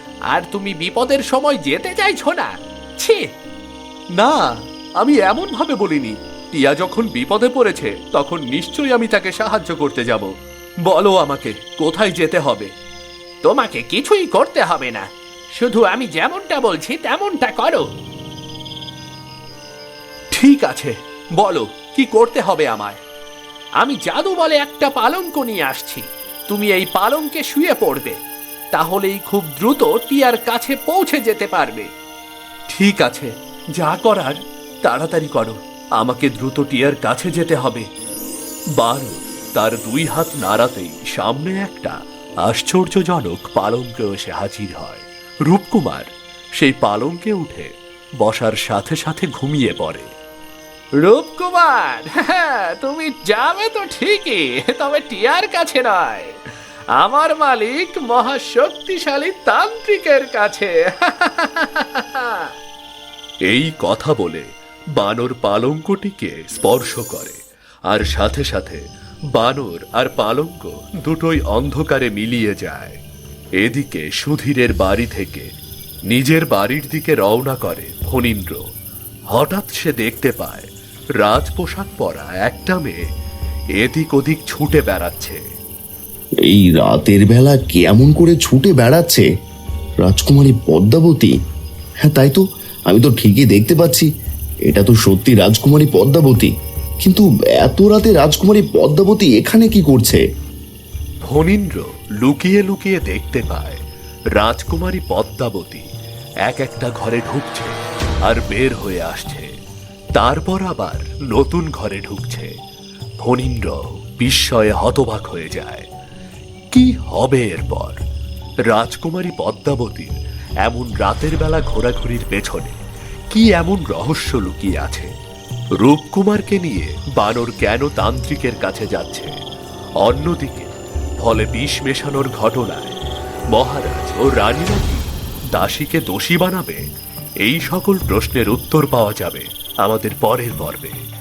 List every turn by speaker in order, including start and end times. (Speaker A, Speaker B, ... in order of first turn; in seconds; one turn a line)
Speaker A: 0.3-2.5
Speaker B: 4.2-10.3
Speaker B: 10.8-12.7
Speaker A: 13.4-15.1
Speaker A: 15.6-17.8
Speaker B: 20.3-22.6
Speaker A: 23.8-28.1
Speaker A: 28.8-31.9
Speaker B: 32.7-37.9
Speaker B: 38.8-50.1
Speaker A: 51.0-56.3
Speaker A: 57.0-60.7
Speaker B: 63.5-73.0
Speaker B: 73.6-75.5
Speaker B: 76.1-78.7
Speaker B: 79.3-80.7
Speaker B: 81.2-83.0
Speaker B: 83.8-85.4
Speaker C: 86.5-89.3
Speaker C: 90.0-91.3
Speaker C: 92.0-94.1
Speaker C: 94.7-96.5
Speaker C: 97.0-100.2
Speaker B: 101.2-103.8
Speaker B: 104.4-105.8
Speaker B: 106.5-109.5
Speaker B: 110.2-112.5
Speaker B: 113.2-115.9
Speaker B: 116.7-118.0
Speaker B: 118.7-122.8
Speaker B: 123.3-125.1
Speaker B: 125.8-129.3
Speaker B: 130.0-130.7
Speaker B: 131.2-133.0
Speaker B: 133.5-136.8
Speaker B: 137.4-141.0